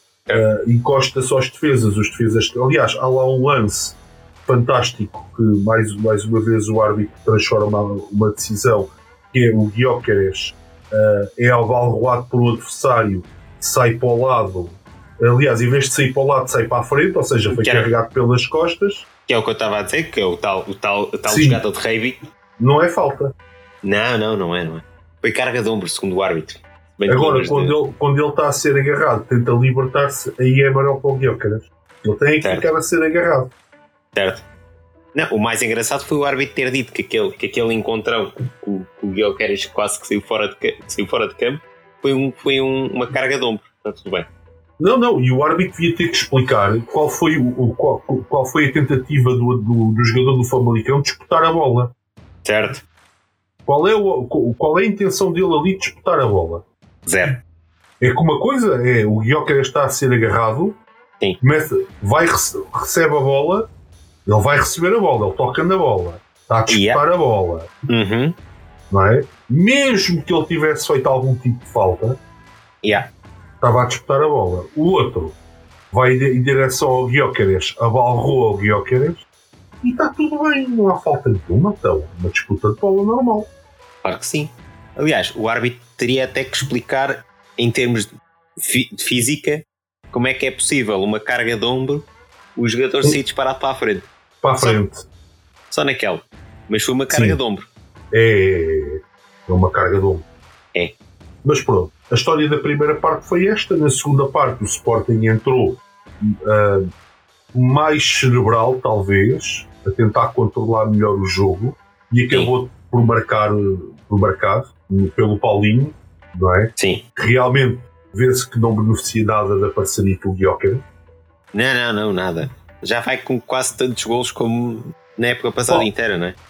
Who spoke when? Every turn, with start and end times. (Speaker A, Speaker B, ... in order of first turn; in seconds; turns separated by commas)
Speaker A: 0.3-19.1, Speaker B: 17.5-17.9, Speaker B: 19.3-22.2, Speaker A: 21.3-21.6, Speaker A: 22.6-23.3, Speaker B: 23.8-27.8, Speaker A: 27.1-33.5, Speaker B: 32.4-32.7, Speaker B: 34.1-34.4, Speaker B: 35.1-44.3, Speaker A: 44.8-51.9, Speaker B: 52.4-52.8, Speaker A: 53.6-56.6, Speaker B: 57.0-57.4, Speaker A: 58.0-60.8, Speaker A: 61.4-63.7, Speaker A: 64.2-67.7, Speaker B: 66.7-67.0, Speaker B: 67.9-68.3, Speaker A: 68.9-72.2, Speaker B: 72.8-73.1, Speaker A: 73.6-75.3, Speaker A: 75.9-79.2, Speaker A: 79.8-83.5, Speaker B: 84.0-94.8, Speaker A: 94.4-95.0, Speaker B: 95.7-97.7, Speaker A: 97.1-97.4, Speaker A: 98.1-100.2, Speaker A: 101.4-106.9, Speaker A: 107.5-120.8, Speaker B: 116.8-117.0, Speaker B: 121.5-126.4